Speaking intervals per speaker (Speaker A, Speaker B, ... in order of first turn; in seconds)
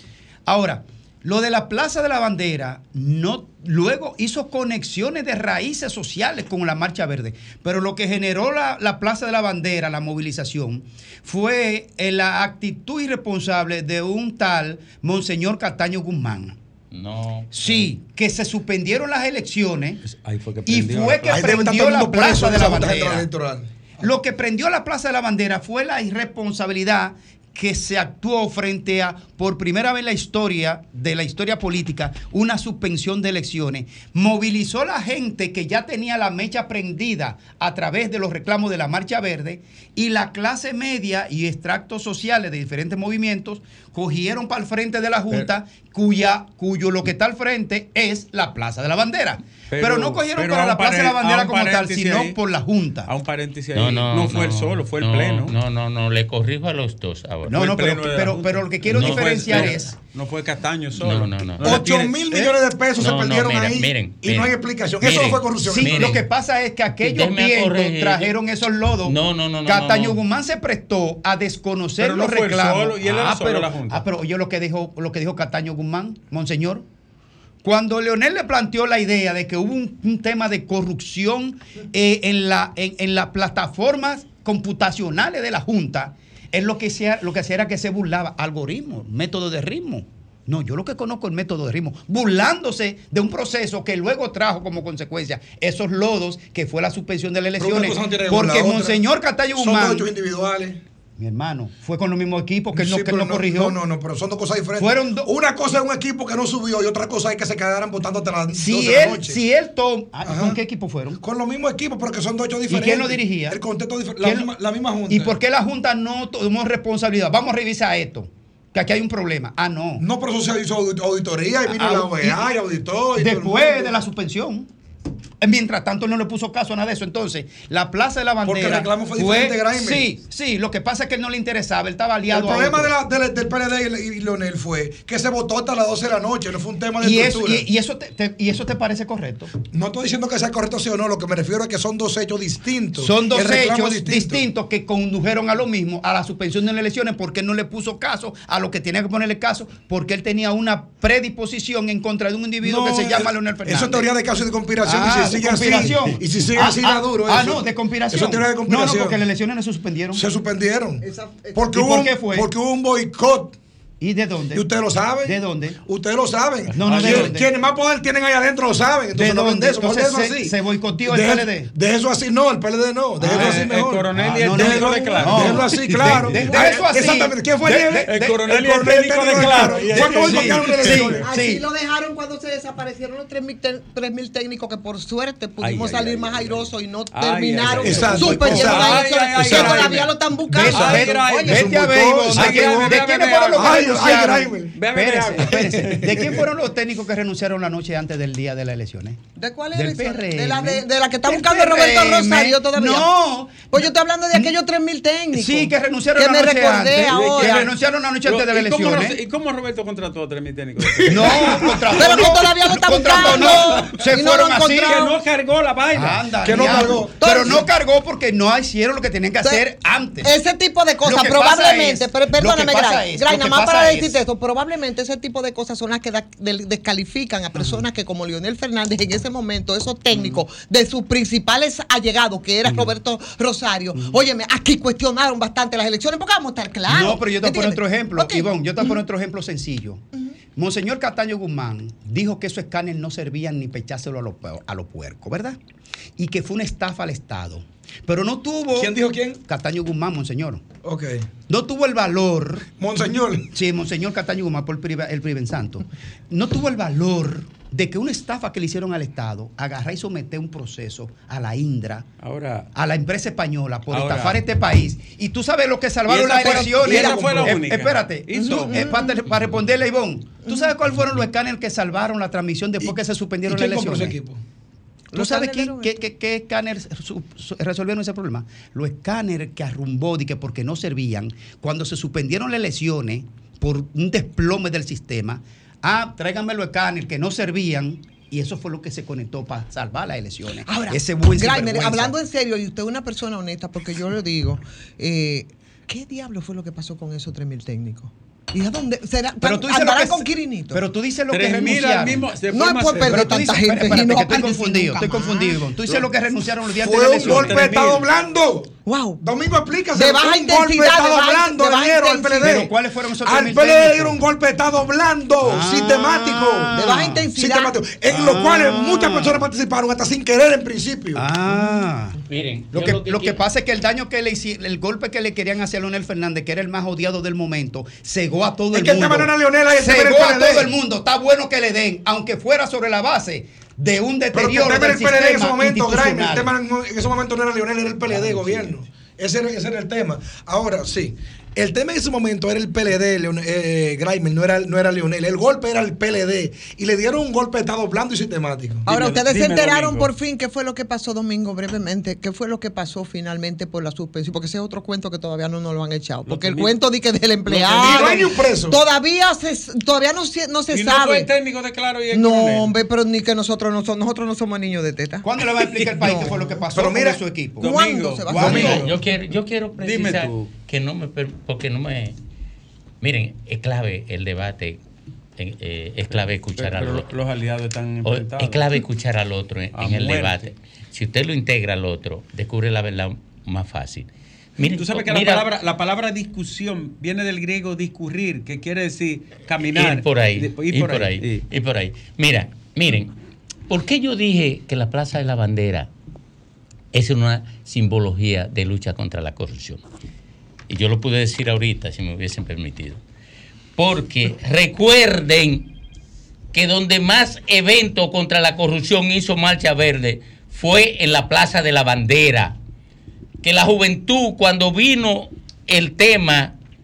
Speaker A: 0.5-16.6, 17.5-20.0, 20.7-23.3, 24.0-53.1, 57.5-60.0, 65.6-76.8, 77.6-100.1, 101.2-103.8, 104.8-105.3, 108.5-111.2, 112.7-113.6, 114.2-114.5, 115.1-120.0, 121.7-122.5, 123.2-124.7, 125.4-132.9, 137.0-139.5, 143.0-154.1, 154.8-160.2, 161.7-162.5, 164.0-164.7, 165.2-165.8, 166.7-167.5, 169.1-171.7, 173.2-178.4, 179.3-181.7, 187.7-190.0, 190.5-199.2, 199.7-203.7, 205.3-209.2, 211.1-215.1, 215.9-220.3, 221.0-224.2, 227.5-227.8, 230.1-230.4, 232.7-232.9, 233.9-234.2, 236.9-240.0, 240.5-245.6, 246.2-250.6, 251.5-252.7, 253.5-262.1, 262.7-274.2, 275.1-292.2, 299.4-302.4, 303.1-308.0, 312.4-314.2, 315.4-317.3, 318.0-319.5, 321.1-322.2, 322.7-336.5, 338.1-338.8, 365.2-367.7, 368.3-368.8
Speaker B: 16.9-17.9, 53.7-57.7, 58.9-60.0, 61.0-61.9, 63.0-66.2, 67.0-68.3, 69.0-70.2, 322.2-323.4, 368.6-372.2, 373.0-374.8, 375.4-377.1, 378.0-385.5, 389.7-393.1, 393.7-395.9, 396.9-399.8, 400.7-403.0, 403.8-405.7, 406.5-412.6, 413.4-416.6
Speaker C: 20.1-21.6, 49.7-52.4, 53.1-55.5, 57.5-62.6, 72.0-74.0, 166.8-167.4, 173.2-176.5, 177.7-181.0, 185.6-190.1, 190.7-196.4, 207.1-211.9, 214.8-216.8, 262.2-262.7, 263.9-264.4, 266.1-269.6, 301.3-303.6, 307.2-307.9, 348.9-350.1, 356.3-356.7, 357.5-358.2, 360.7-362.7, 367.6-369.0, 369.8-370.5, 376.1-378.8, 379.7-380.4, 384.8-391.4
Speaker D: 21.3-24.0, 61.6-66.1, 97.6-99.0, 99.6-100.8, 102.8-109.4, 110.2-110.6, 111.2-115.4, 120.0-124.0, 128.4-130.1, 132.3-137.7, 139.7-144.4, 152.6-159.2, 160.1-161.0, 161.5-163.6, 164.5-181.2, 187.8-189.9, 190.6-194.8, 195.4-196.4, 211.0-211.4, 213.1-213.8, 216.4-217.5, 248.8-249.4, 250.8-251.3, 252.8-253.5, 266.7-267.6, 273.4-274.4, 306.8-316.7, 317.4-321.3, 328.7-330.7, 334.3-348.9, 357.7-358.8, 366.7-367.2, 368.4-368.9
Speaker E: 161.0-161.8, 181.2-191.6, 199.4-207.7, 211.9-215.1, 217.2-217.7, 219.4-239.0, 266.4-267.5, 268.4-269.2, 270.4-270.7, 275.1-276.0, 290.6-300.8, 302.5-305.6, 308.9-309.2, 310.0-312.7, 316.7-317.9, 321.5-321.8, 348.9-361.3, 362.1-366.4, 367.6-368.8